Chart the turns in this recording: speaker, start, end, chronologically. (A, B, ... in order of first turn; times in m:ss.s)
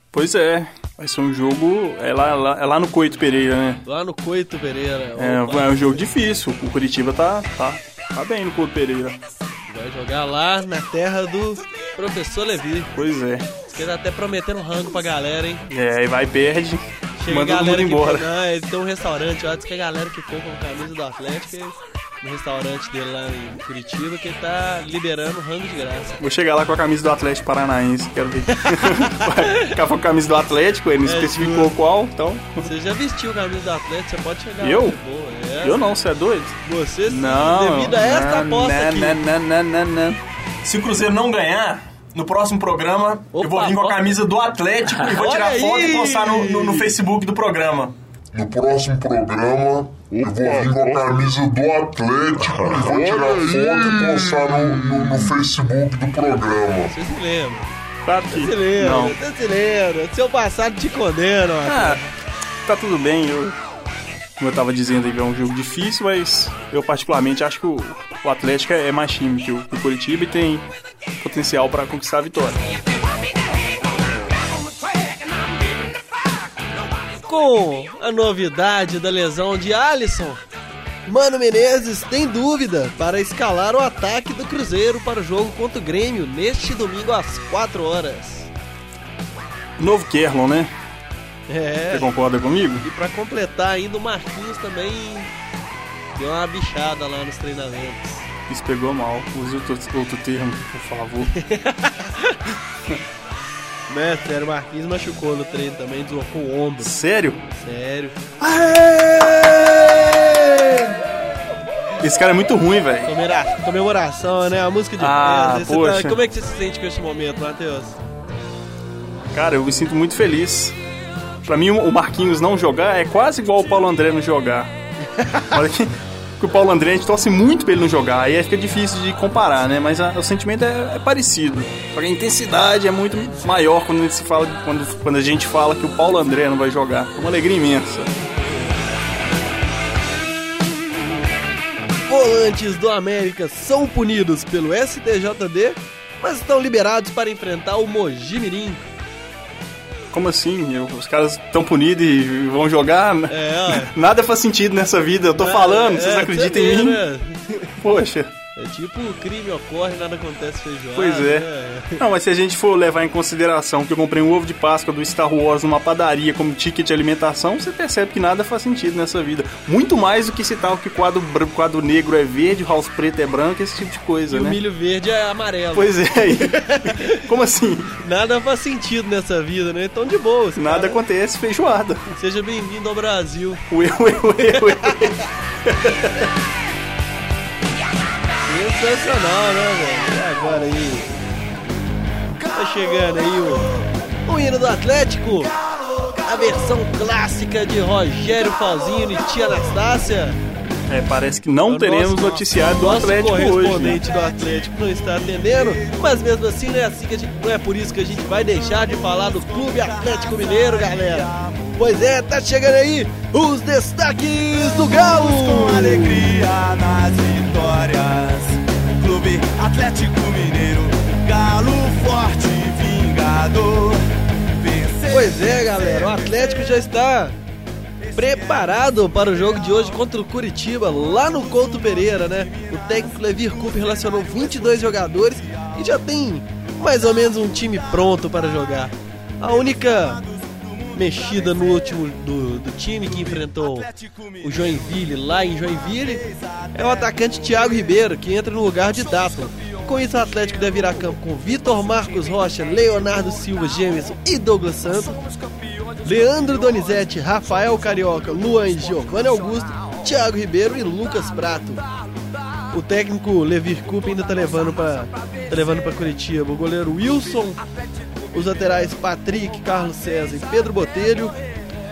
0:00.1-0:03.8 A
0:03.8-0:06.0 B
0:05.2-0:09.2 A
0:09.7-0:12.9 B
0:12.9-0:13.5 A
0:13.7-0:15.6 B
0:15.7-0:18.3 A
0:17.2-0:26.2 B
0:26.2-0:32.7 A
0:28.6-0:29.7 B
0:31.0-0:31.7 B
0:32.6-0:35.8 B
0:34.6-0:35.0 A
0:35.6-0:36.6 A
0:36.6-0:39.2 B
0:37.1-0:48.0 A
0:43.3-0:44.1 B
0:44.9-0:46.9 B
0:48.3-0:56.9 C
0:52.8-0:54.7 A
0:56.9-0:57.7 B
0:58.0-0:59.2 A
0:58.3-1:02.1 B
1:01.6-1:02.0 A
1:02.6-1:03.6 A
1:04.4-1:10.6 A
1:11.2-1:12.7 A
1:17.2-1:20.4 B
1:21.0-1:28.5 B
1:29.8-1:30.7 A
1:31.5-1:32.1 B
1:31.9-1:32.8 A
1:32.8-1:35.3 B
1:36.1-1:38.3 B
1:38.5-1:41.3 A
1:41.3-1:42.6 B
1:43.9-1:46.9 B
1:46.8-1:47.4 A
1:47.5-1:48.2 B
1:48.4-1:51.0 A
1:52.0-1:53.1 A
1:53.0-1:58.0 B
1:55.0-1:56.2 A
1:59.3-2:00.8 A
2:01.4-2:04.7 A
2:05.4-2:18.2 A
2:22.1-2:28.9 B
2:30.1-2:37.0 A
2:33.3-2:33.9 B
2:35.4-2:37.8 B
2:37.8-2:38.3 A
2:38.6-2:42.0 B
2:40.9-2:54.6 A
2:54.3-2:57.2 B
2:55.7-2:57.9 A
2:58.0-3:01.0 B
3:00.6-3:02.1 A
3:02.2-3:03.6 B
3:03.7-3:06.3 A
3:04.5-3:05.1 B
3:08.4-3:11.1 B
3:12.5-3:13.7 B
3:14.2-3:15.5 B
3:16.2-3:20.4 B
3:20.9-3:24.0 A
3:21.7-3:36.4 B
3:30.3-3:30.7 D
3:34.9-3:44.0 D
3:44.6-3:45.4 D
3:45.1-3:47.4 B
3:48.1-4:00.2 B
4:00.9-4:15.2 B
4:16.0-4:21.8 B
4:22.7-4:27.6 B
4:28.3-4:31.4 B